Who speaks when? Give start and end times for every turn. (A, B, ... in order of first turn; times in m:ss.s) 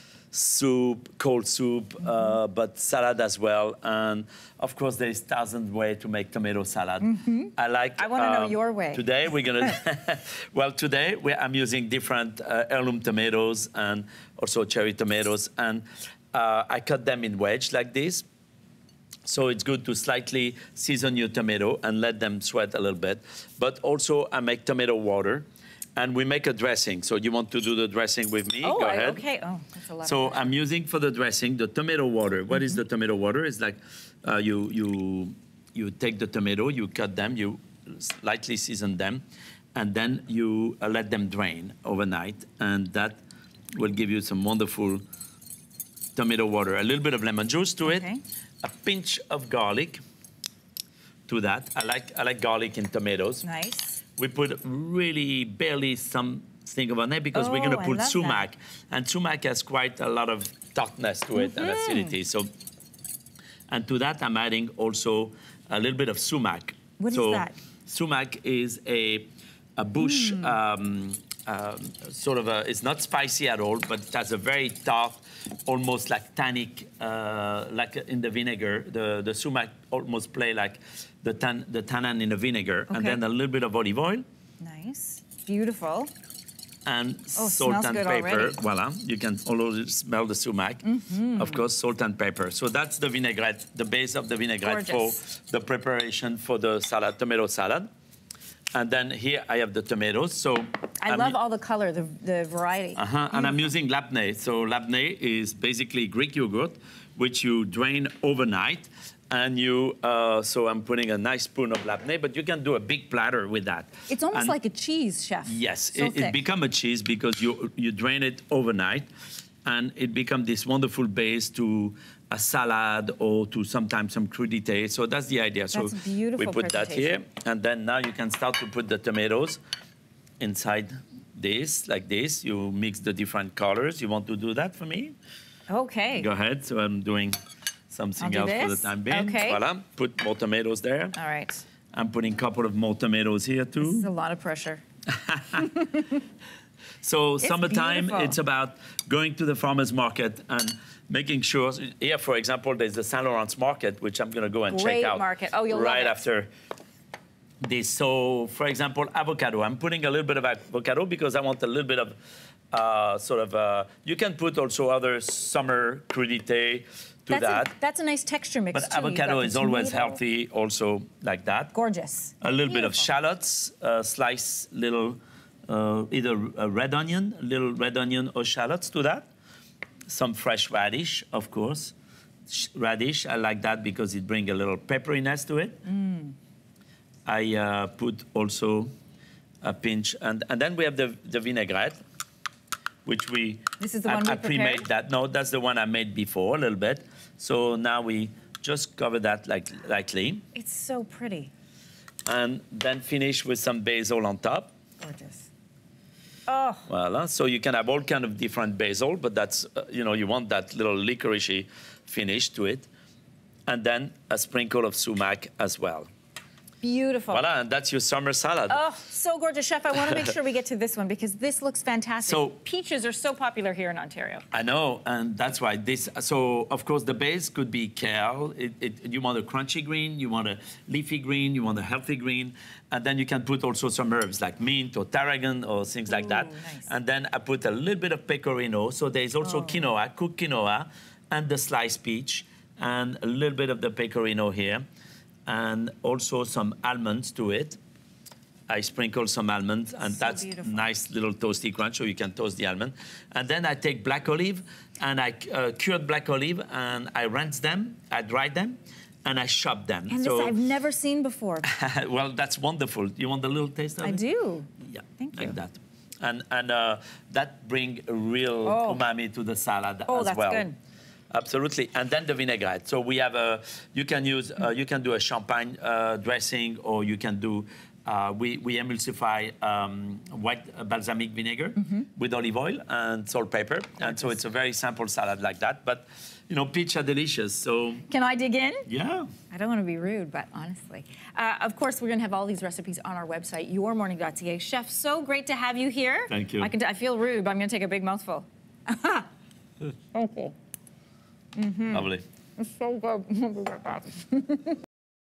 0:00.3-0:18.2 A
0:07.0-0:09.7 B
0:19.2-0:29.2 A
0:28.6-0:30.5 B
0:30.0-0:39.2 A
0:39.8-0:43.2 A
0:43.7-0:45.0 A
0:46.2-0:48.1 A
0:47.8-0:48.2 B
0:48.6-0:50.0 A
0:51.3-0:53.4 A
0:53.4-0:54.0 B
0:54.2-1:02.5 A
0:57.3-0:58.5 B
1:01.4-1:02.1 B
1:03.7-1:24.2 A
1:07.0-1:07.6 B
1:10.0-1:10.5 B
1:22.9-1:23.2 B
1:24.6-1:26.1 B
1:26.8-1:37.9 A
1:27.4-1:28.6 B
1:30.8-1:31.6 B
1:34.6-1:35.2 B
1:38.7-1:41.4 A
1:41.0-1:43.6 B
1:43.0-1:54.6 A
1:54.1-1:56.4 B
1:55.4-1:59.1 A
1:59.6-2:09.6 A
2:05.7-2:07.2 B
2:10.4-2:15.2 A
2:15.7-2:16.3 B
2:16.2-2:17.4 A
2:17.9-2:21.2 A
2:18.2-2:19.6 B
2:21.2-2:21.6 B
2:21.9-2:24.1 A
2:23.8-2:24.8 B
2:25.1-2:25.8 A
2:27.0-2:36.5 A
2:27.4-2:28.4 B
2:34.7-2:36.3 B
2:37.6-2:42.2 A
2:42.7-2:47.7 A
2:47.3-2:50.2 B
2:48.7-2:51.7 A
2:51.7-2:53.1 B
2:52.4-2:59.3 A
3:00.1-3:01.9 A
3:02.5-3:05.8 A
3:05.9-3:06.4 B
3:07.3-3:08.9 A
3:09.6-3:12.0 A
3:13.1-3:20.4 A
3:13.8-3:14.9 B
3:20.6-3:21.5 B
3:22.3-3:24.7 A
3:25.0-3:25.5 B
3:26.5-3:26.9 B
3:26.9-3:32.9 A
3:33.7-3:36.1 A
3:36.8-3:37.4 B
3:37.3-3:38.8 A
3:38.7-3:44.4 B
3:42.2-3:42.6 A
3:44.5-4:04.8 A
3:56.1-3:56.9 B
3:59.4-3:59.8 B
4:05.5-4:07.8 A
4:08.7-4:20.6 A
4:10.0-4:10.9 B
4:20.1-4:21.7 B
4:21.6-4:24.2 A
4:24.0-4:25.6 B
4:24.8-4:30.7 A
4:28.6-4:29.0 B
4:30.1-4:30.8 B
4:31.3-4:48.0 A
4:41.8-4:42.0 B
4:48.1-4:48.9 B
4:48.9-4:49.3 A
4:49.5-4:59.3 B
4:56.3-4:56.7 A
5:00.1-5:00.5 B
5:01.6-5:02.1 B
5:01.9-5:02.2 A
5:02.6-5:04.7 B